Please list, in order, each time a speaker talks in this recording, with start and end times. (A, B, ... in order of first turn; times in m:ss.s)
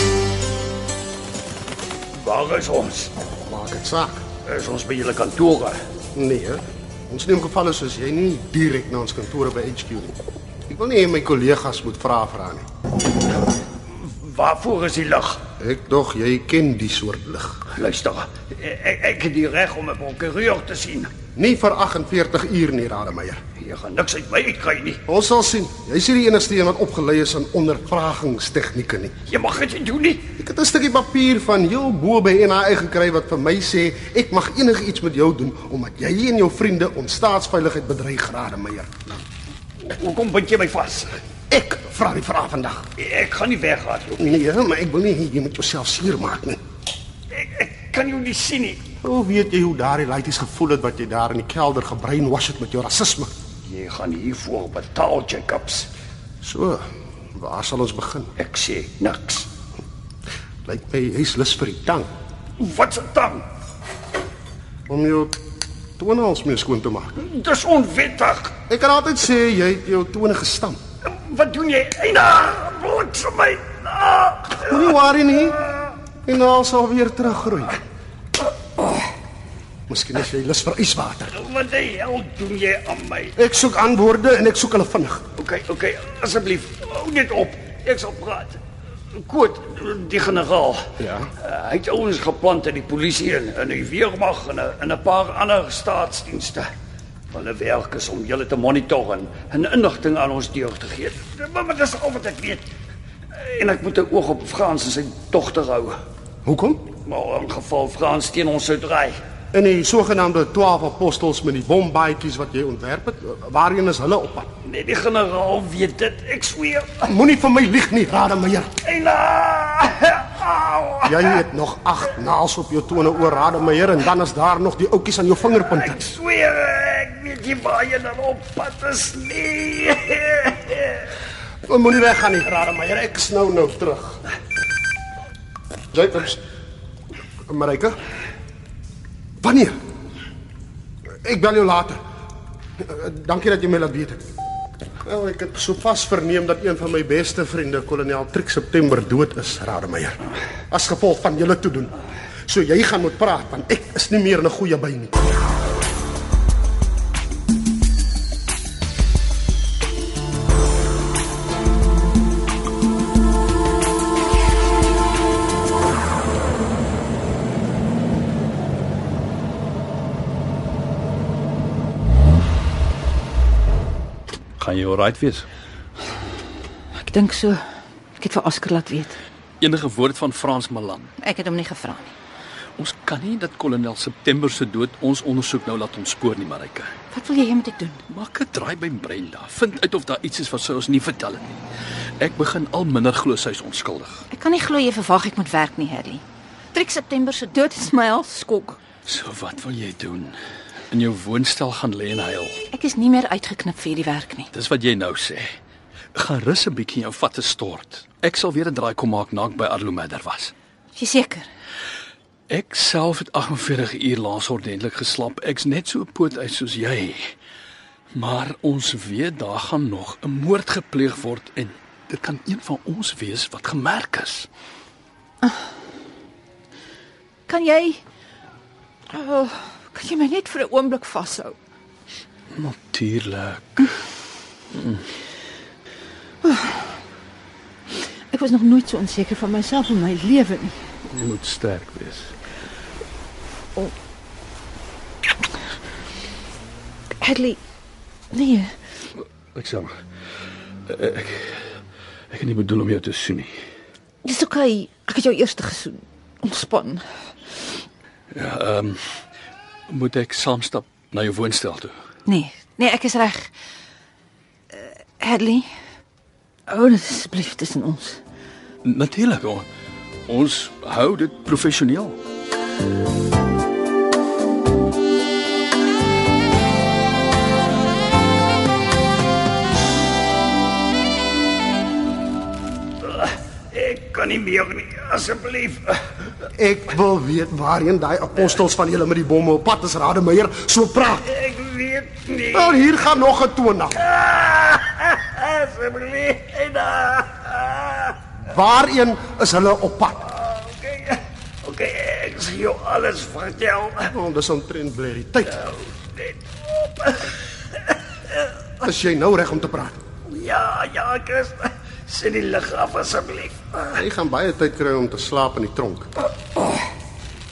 0:02.2-0:02.5 A
0:03.5-0:04.2 B
0:05.1-0:05.5 A
0:06.2-0:10.1 B
0:10.7-0:12.7 B
0:13.8-0:15.4 A
0:15.6-0:17.6 B
0:17.8-0:21.1 A
0:21.4-0:23.4 B
0:23.6-0:25.0 A
0:25.1-0:29.2 B
0:29.3-0:30.2 A
0:30.4-0:38.9 B
0:41.5-0:42.8 B
0:43.9-0:44.2 A
0:44.2-0:46.6 B
0:47.6-0:48.3 A
0:49.0-0:53.3 B
0:53.7-0:55.6 A
0:56.4-0:56.8 B
0:57.4-0:58.3 B
0:58.7-0:59.3 A
1:00.6-1:02.1 B
1:02.6-1:03.4 A
1:04.9-1:05.4 B
1:06.0-1:07.2 B
1:08.7-1:10.8 B
1:11.3-1:14.7 A
1:14.6-1:15.6 B
1:16.2-1:17.8 B
1:19.9-1:21.4 B
1:21.4-1:23.4 A
1:23.4-1:25.2 B
1:25.4-1:28.6 A
1:29.1-1:36.7 A
1:31.0-1:31.3 B
1:37.3-1:42.6 A
1:43.4-1:45.9 A
1:46.4-1:46.9 B
1:47.0-1:49.2 A
1:49.5-1:54.5 B
1:54.6-1:57.0 A
1:57.1-1:58.7 B
1:58.8-2:01.3 A
2:01.0-2:06.1 B
2:05.8-2:11.1 A
2:11.7-2:14.2 B
2:15.9-2:16.4 B
2:17.5-2:18.0 B
2:19.4-2:19.7 B
2:21.2-2:22.0 B
2:22.8-2:24.2 B
2:25.0-2:32.0 B
2:32.5-2:35.5 B
2:54.6-2:55.5 C
2:57.0-2:57.6 D
2:58.2-2:59.2 D
2:59.6-3:01.1 C
3:01.2-3:02.2 D
3:02.8-3:06.9 C
3:07.1-3:08.0 D
3:08.1-3:11.6 C
3:12.2-3:14.3 C
3:14.3-3:18.8 D
3:19.0-3:20.4 C
3:20.9-3:22.6 C
3:22.7-3:24.5 D
3:24.5-3:25.6 C
3:26.2-3:30.5 C
3:31.0-3:31.5 D
3:32.5-3:37.3 C
3:38.1-3:44.5 C
3:47.5-3:48.0 D
3:49.1-3:51.6 D
3:52.6-3:53.9 C
3:54.7-3:55.0 C
3:56.4-3:57.0 D
3:58.3-4:00.8 D
4:01.1-4:02.3 C
4:07.2-4:07.6 D
4:08.3-4:08.7 D
4:09.6-4:10.0 C
4:10.9-4:11.6 C
4:12.3-4:13.6 C
4:14.2-4:17.0 D
4:18.3-4:19.0 C
4:19.9-4:21.9 C
4:22.3-4:23.5 D
4:24.7-4:25.7 D
4:26.7-4:28.2 D
4:28.8-4:29.7 C
4:30.3-4:32.2 C
4:43.0-4:46.0 A
4:46.5-4:51.3 B
4:51.3-4:52.8 A
4:52.5-4:54.1 B
4:54.0-4:58.2 A
4:58.5-5:00.3 B
5:00.3-5:04.1 A
5:04.1-5:05.6 B
5:05.5-5:08.6 A
5:08.8-5:10.0 B
5:10.3-5:14.0 A
5:14.0-5:16.1 B